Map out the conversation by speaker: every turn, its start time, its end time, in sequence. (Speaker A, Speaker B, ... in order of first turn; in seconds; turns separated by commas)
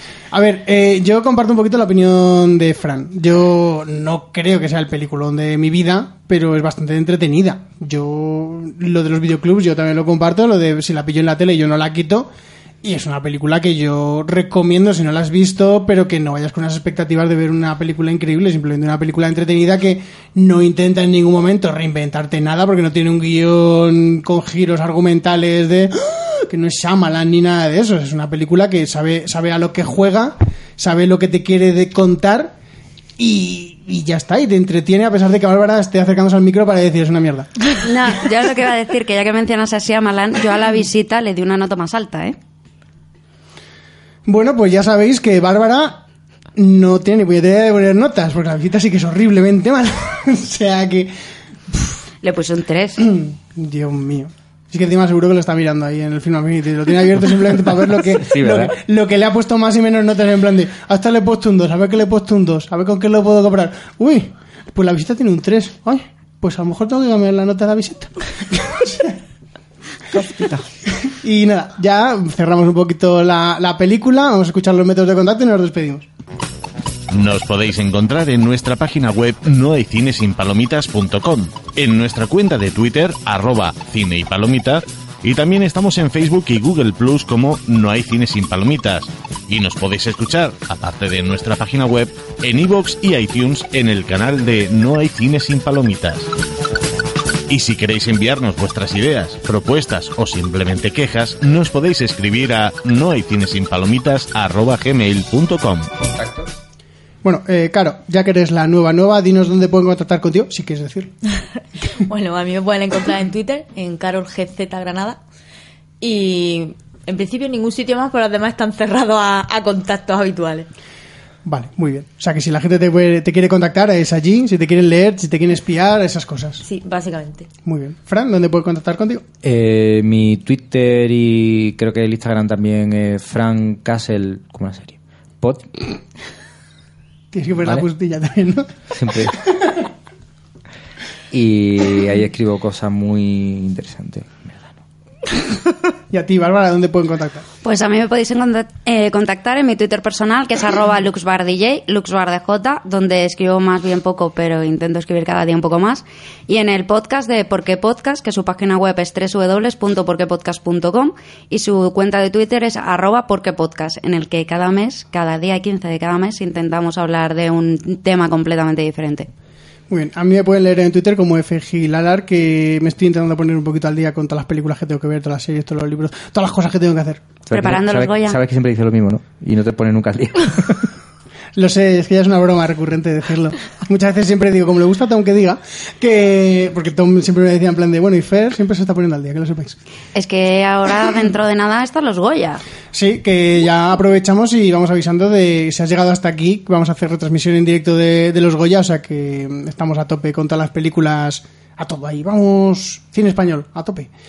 Speaker A: 0.3-12.3, Speaker A: 12.8-32.5, Speaker A: 33.2-37.5, Speaker B: 37.8-42.4, Speaker A: 44.2-46.0, Speaker A: 46.5-51.1, Speaker B: 52.2-53.0, Speaker A: 53.0-69.2, Speaker C: 58.1-58.7, Speaker C: 70.2-70.6, Speaker A: 71.0-76.1, Speaker D: 77.1-96.3, Speaker D: 97.5-105.9, Speaker C: 106.1-106.5, Speaker A: 107.2-111.1, Speaker E: 111.9-115.2, Speaker E: 116.0-120.7, Speaker A: 121.4-126.6, Speaker E: 126.6-127.5, Speaker A: 127.6-129.2, Speaker C: 129.4-135.7, Speaker A: 137.3-138.7, Speaker C: 138.9-139.3, Speaker C: 141.3-144.7, Speaker A: 146.1-147.4, Speaker B: 147.6-169.3, Speaker A: 169.9-177.2, Speaker C: 177.5-180.9, Speaker B: 177.5-178.4, Speaker A: 181.5-189.8, Speaker B: 190.1-192.6, Speaker A: 192.9-204.1